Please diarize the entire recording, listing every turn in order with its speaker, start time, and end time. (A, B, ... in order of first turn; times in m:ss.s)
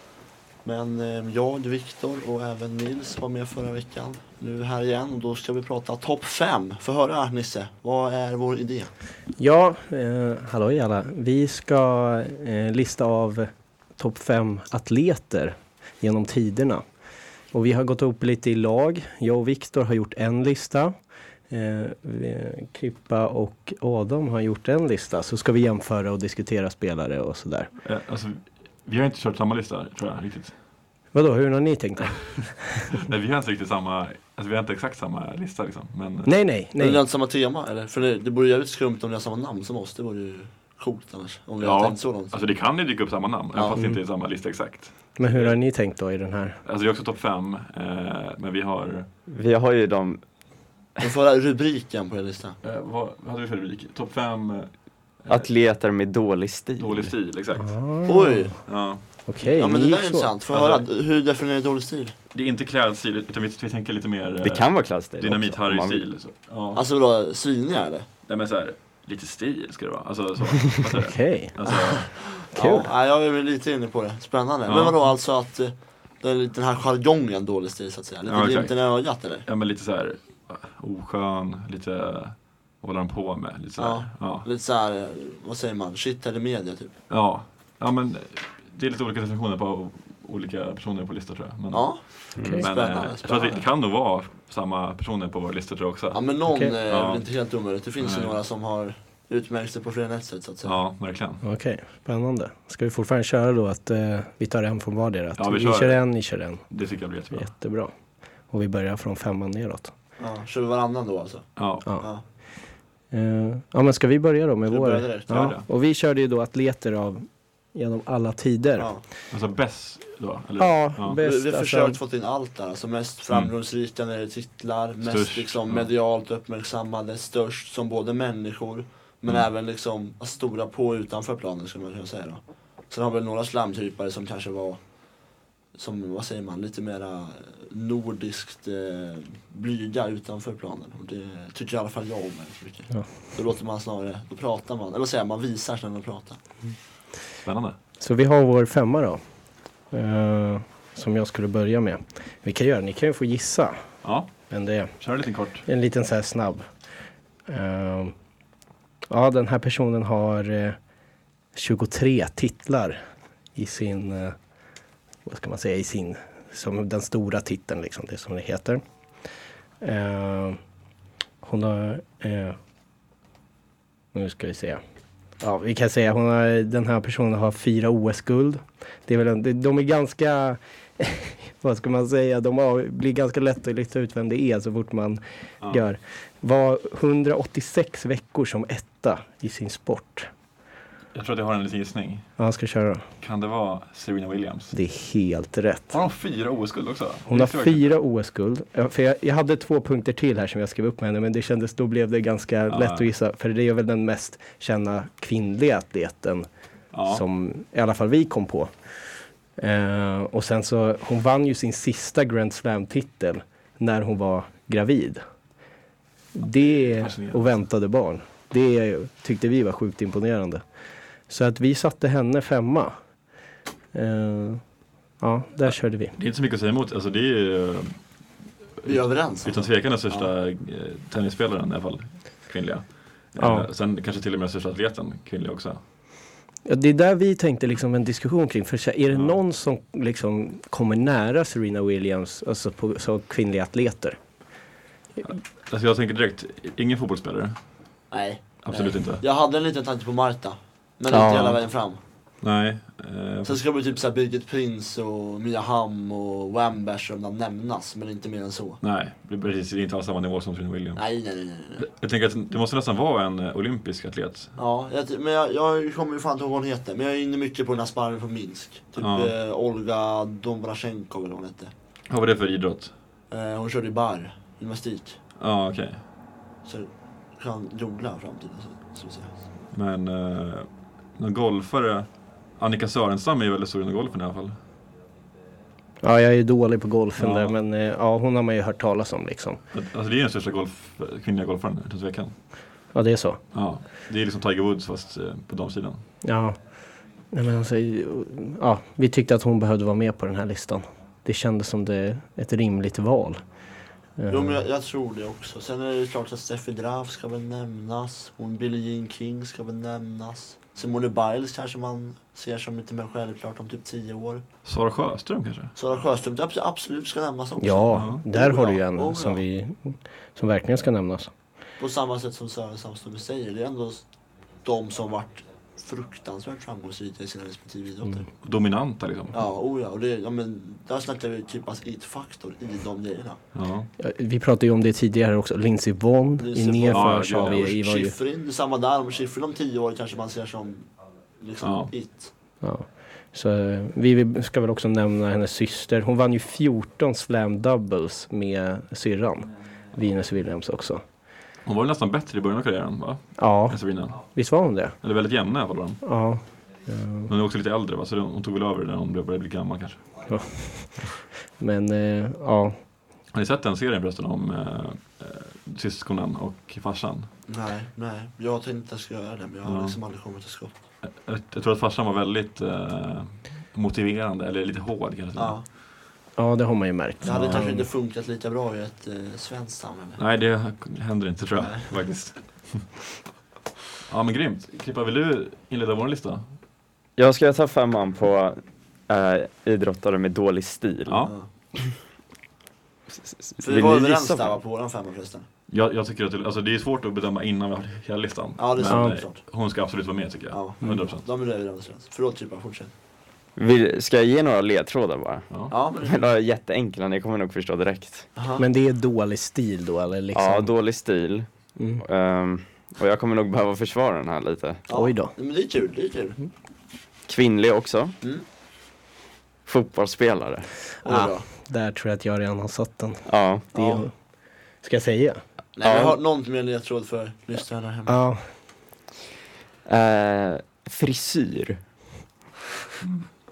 0:00.6-0:08.9 A
0:09.4-0:16.8 B
0:17.5-0:20.9 B
0:21.5-0:27.7 B
0:27.8-0:30.5 C
0:31.1-0:32.9 B
0:32.9-0:36.3 C
0:36.2-0:37.0 B
0:36.8-0:42.4 A
0:41.6-0:45.6 C
0:43.5-0:43.8 A
0:45.2-0:46.6 B
0:46.6-0:49.1 C
0:49.3-0:50.2 D
0:51.0-0:52.6 A
0:52.6-0:54.7 C
0:55.2-0:55.5 C
0:55.3-0:57.1 D
0:56.8-0:57.8 C
0:57.6-0:58.6 B
0:58.0-0:58.6 A
0:58.7-0:59.0 C
0:59.3-1:00.3 B
0:59.4-1:02.1 A
1:00.5-1:00.9 C
1:02.3-1:06.8 C
1:04.4-1:06.1 D
1:06.7-1:08.1 A
1:08.3-1:12.2 C
1:10.9-1:11.5 B
1:11.7-1:19.4 A
1:12.5-1:12.9 B
1:14.6-1:15.0 C
1:18.2-1:18.8 C
1:19.4-1:24.4 C
1:23.8-1:26.9 A
1:27.1-1:37.2 C
1:31.7-1:33.6 A
1:36.1-1:40.8 A
1:38.0-1:38.4 C
1:40.6-1:41.4 C
1:41.4-1:46.6 B
1:45.4-1:46.0 C
1:46.7-1:47.5 C
1:47.3-1:47.9 B
1:48.5-1:49.9 B
1:50.2-1:52.2 A
1:51.6-1:51.9 C
1:53.1-1:58.9 B
1:54.7-1:55.5 A
1:55.3-1:55.6 C
1:58.8-1:59.0 A
1:59.3-2:01.2 C
2:00.6-2:02.0 B
2:01.2-2:14.8 A
2:05.0-2:05.9 C
2:15.7-2:26.4 A
2:27.4-2:27.8 C
2:28.0-2:29.2 B
2:29.9-2:33.8 B
2:34.0-2:34.3 C
2:34.5-2:35.0 B
2:35.0-2:35.6 C
2:35.6-2:36.7 B
2:37.5-2:38.1 B
2:39.1-2:40.8 B
2:41.5-2:43.0 B
2:43.5-2:44.4 B
2:45.2-2:48.8 B
2:49.8-2:50.6 B
2:51.4-2:52.6 B
2:54.1-2:54.8 B
2:55.4-3:10.3 B
3:11.1-3:12.3 C
3:12.4-3:13.0 B
3:13.2-3:14.7 C
3:14.7-3:15.9 B
3:15.9-3:17.9 C
3:17.3-3:26.5 B
3:22.7-3:23.1 C
3:26.9-3:27.2 C
3:27.1-3:28.7 B
3:29.6-3:35.2 B
3:36.3-3:40.6 B
3:36.4-3:37.5 C
3:41.3-3:42.9 B
3:43.9-3:44.6 B
3:45.2-3:46.2 B
3:45.6-3:48.0 C
3:48.8-3:55.8 C
3:48.8-3:50.3 A
3:53.4-3:53.7 B
3:56.6-4:04.2 B
4:05.2-4:07.6 C
4:08.1-4:12.0 A
4:08.6-4:09.2 C
4:11.1-4:11.6 D
4:12.4-4:13.6 C
4:13.4-4:18.8 A
4:18.8-4:21.0 C
4:21.0-4:21.8 A
4:21.8-4:24.5 C
4:24.6-4:31.7 A
4:29.0-4:29.3 C
4:32.1-4:32.9 C
4:33.3-4:35.2 A
4:35.4-4:36.0 C
4:36.6-4:39.4 A
4:39.7-4:44.6 C
4:46.0-4:49.6 B
4:47.2-4:47.5 C
4:49.7-4:52.3 C
4:52.9-4:53.4 B
4:53.5-4:56.0 C
4:56.2-4:56.6 B
4:57.3-5:03.4 B
5:04.2-5:04.6 B
5:04.3-5:14.4 A
5:14.6-5:15.7 C
5:15.8-5:19.4 A
5:17.6-5:21.3 B
5:17.9-5:18.2 C
5:21.8-5:24.0 A
5:24.6-5:28.2 A
5:28.4-5:29.4 C
5:29.3-5:33.4 A
5:33.5-5:33.9 C
5:34.0-5:38.1 B
5:36.4-5:42.3 A
5:36.9-5:37.7 C
5:41.6-5:41.9 C
5:42.6-5:51.0 B
5:51.6-5:54.2 C
5:53.4-5:55.0 B
5:55.0-5:56.0 C
5:56.0-5:57.3 B
5:57.3-6:00.1 C
6:00.2-6:02.8 B
6:03.3-6:07.3 C
6:07.5-6:10.8 A
6:09.6-6:10.0 C
6:11.0-6:15.6 C
6:15.4-6:15.6 A
6:16.4-6:17.9 B
6:17.2-6:20.2 A
6:17.2-6:17.6 C
6:20.2-6:22.9 C
6:21.6-6:21.9 A
6:24.1-6:26.4 C
6:27.2-6:31.2 D
6:31.0-6:31.3 C
6:33.2-6:34.5 D
6:33.6-6:35.4 A
6:35.7-6:41.2 C
6:38.6-6:39.4 A
6:38.9-6:39.2 B
6:40.5-6:42.9 A
6:43.6-6:48.3 D
6:45.7-6:46.2 A
6:48.4-6:48.6 A
6:48.6-6:50.7 B
6:50.3-6:51.5 D
6:51.8-6:52.0 B
6:52.0-6:54.8 D
6:54.9-6:56.4 A
6:54.9-6:55.3 B
6:57.3-6:58.1 D
6:59.6-7:00.7 D
7:01.0-7:01.5 A
7:01.0-7:04.1 B
7:03.3-7:03.6 D
7:03.7-7:04.0 A
7:04.8-7:05.4 B
7:05.8-7:08.2 A
7:05.8-7:06.2 D
7:08.1-7:08.4 B
7:09.8-7:11.8 D